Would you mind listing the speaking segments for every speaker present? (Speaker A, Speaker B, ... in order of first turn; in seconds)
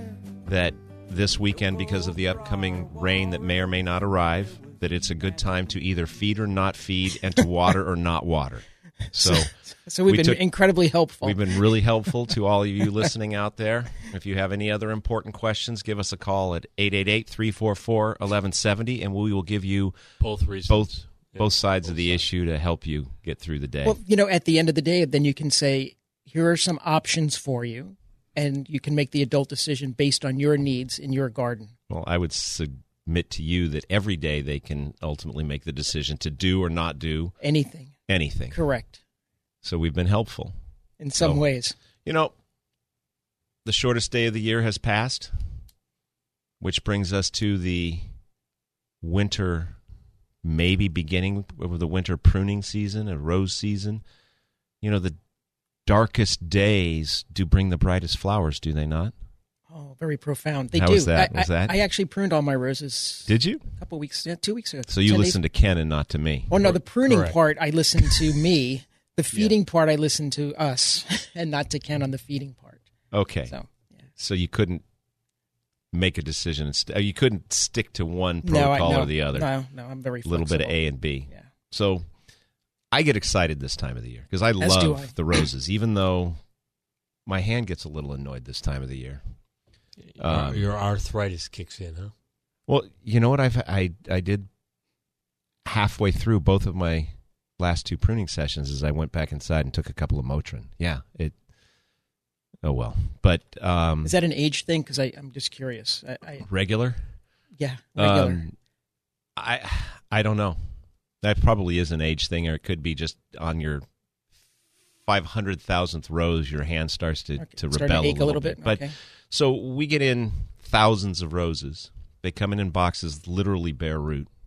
Speaker A: 0.4-9.5, 10.1-10.4, 11.2-20.0, 20.7-24.0, 31.9-37.4, 38.1-38.6, 39.6-40.5, 41.2-41.4, 42.0-42.3, 43.6-45.3, 46.6-48.1, 49.0-49.8, 50.4-54.0, 54.8-55.2, 55.9-59.1, 60.7-61.8, 63.3-63.6, 64.9-66.7, 73.1-73.5, 74.2-74.8, 75.9-79.5, 80.2-82.1, 82.9-86.4, 87.3-89.2, 90.2-90.7, 92.7-94.5, 95.7-101.4, 102.6-104.1, 106.4-107.0, 108.0-108.6, 109.4-110.6, 111.2-113.8, 115.1-124.3
Speaker B: 9.1-11.6, 23.8-31.7, 37.4-37.9, 38.5-39.0, 41.0-41.8, 59.7-65.4, 66.5-72.8, 78.4-81.5, 84.6-85.2, 104.0-106.5, 107.6-108.4, 117.4-118.9
Speaker C: 20.2-22.3, 67.0-67.4, 90.1-92.1